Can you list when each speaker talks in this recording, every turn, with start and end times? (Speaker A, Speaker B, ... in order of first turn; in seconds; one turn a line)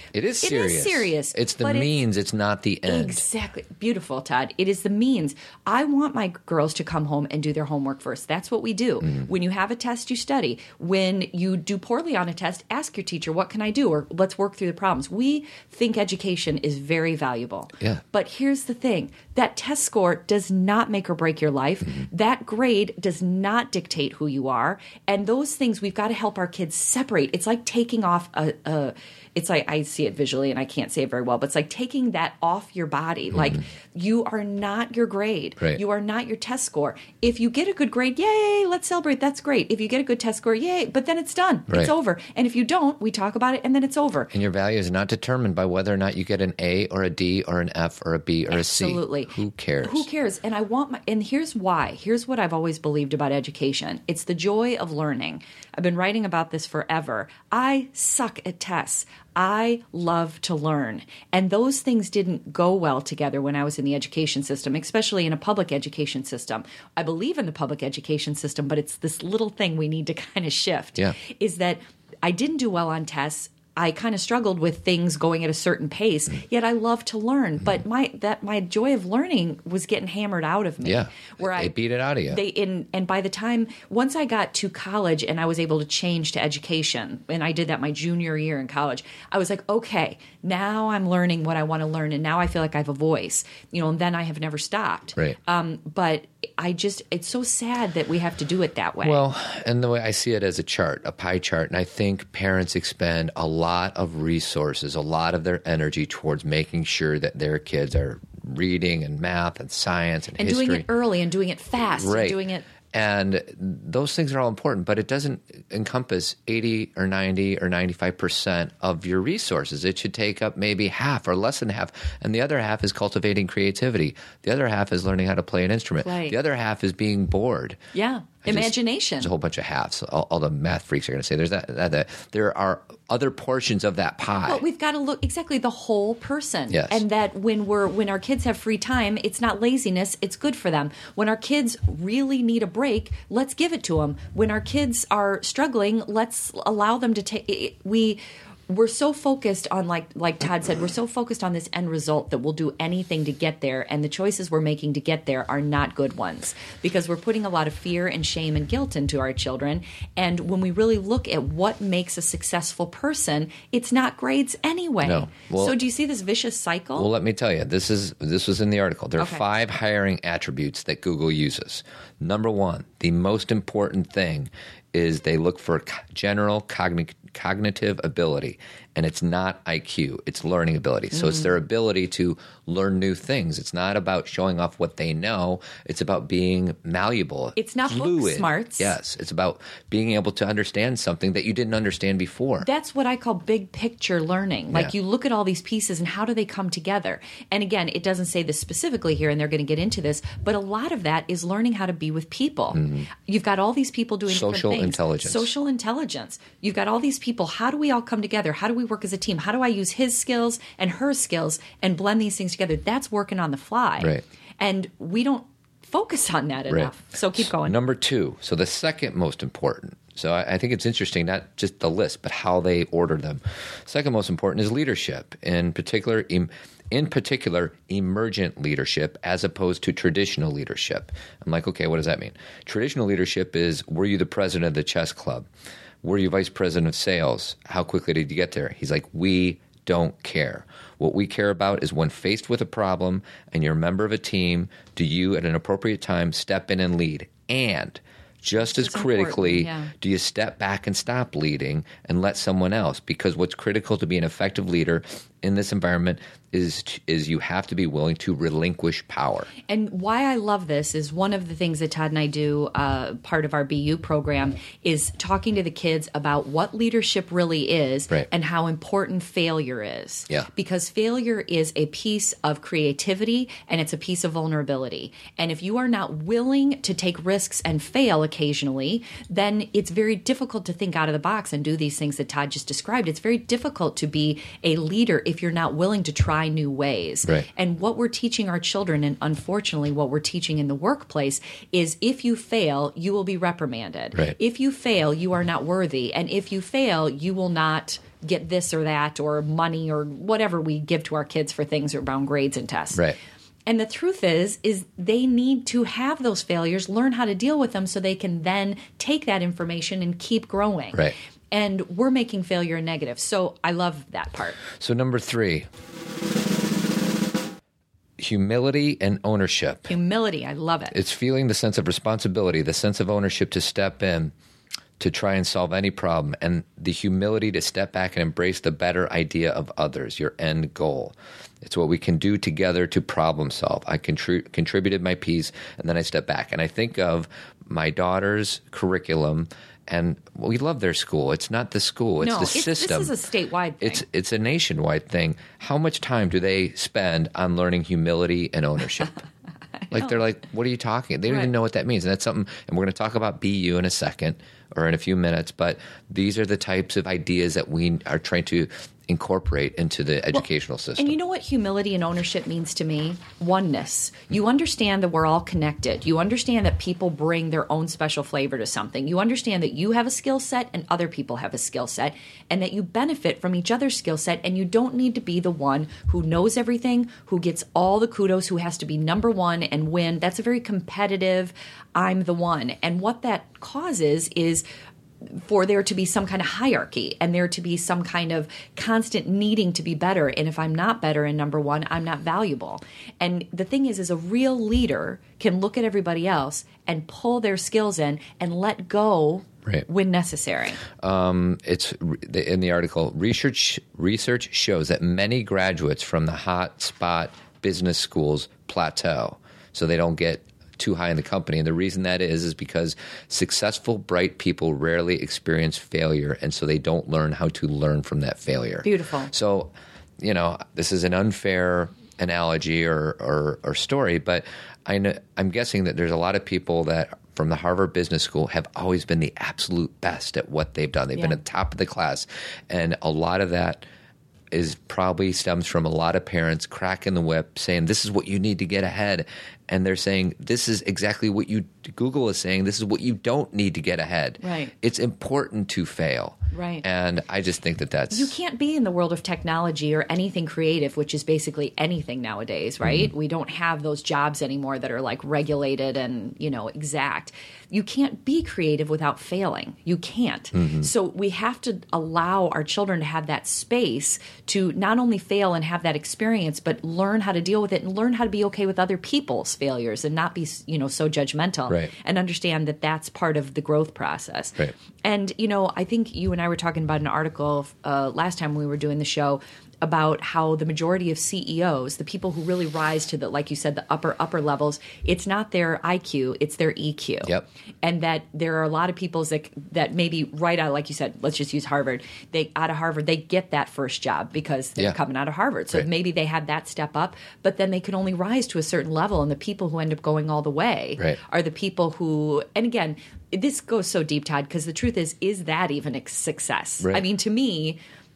Speaker A: 0.1-3.2
Speaker B: 0.4-1.9
Speaker B: 2.9-44.3
Speaker A: 44.3-50.1
Speaker B: 48.5-81.7
Speaker A: 80.8-82.4
Speaker B: 82.3-99.2
Speaker A: 99.0-110.9
Speaker B: 110.4-112.7
Speaker A: 112.0-127.8
Speaker B: 126.0-126.4
Speaker B: 127.9-129.3
Speaker A: 128.4-134.6
Speaker B: 134.4-167.1
Speaker A: 136.7-137.0
Speaker A: 165.0-165.8
Speaker A: 166.9-192.7
Speaker B: 169.2-169.4
Speaker B: 181.1-181.5
Speaker B: 187.6-188.9
Speaker B: 192.6-217.8
Speaker A: 202.7-203.1
Speaker A: 204.3-205.5
Speaker A: 216.7-235.5
Speaker A: 236.0-259.5
Speaker B: 248.6-249.9
Speaker B: 259.7-303.1
Speaker B: 303.6-314.6
Speaker A: 314.8-315.7
Speaker A: 318.2-319.9
Speaker B: 319.9-321.0
Speaker A: 320.9-324.3
Speaker A: 325.0-343.1
Speaker B: 342.2-344.0
Speaker A: 343.8-349.2
Speaker A: 349.9-361.1
Speaker B: 351.3-351.5
Speaker B: 361.0-384.6
Speaker B: 385.3-400.8
Speaker A: 401.0-433.9
Speaker B: 418.8-419.3
Speaker B: 431.1-431.4
Speaker A: 434.5-448.3
Speaker B: 444.4-444.7
Speaker B: 446.5-446.8
Speaker B: 448.1-507.8
Speaker A: 452.8-453.1
Speaker A: 460.5-460.9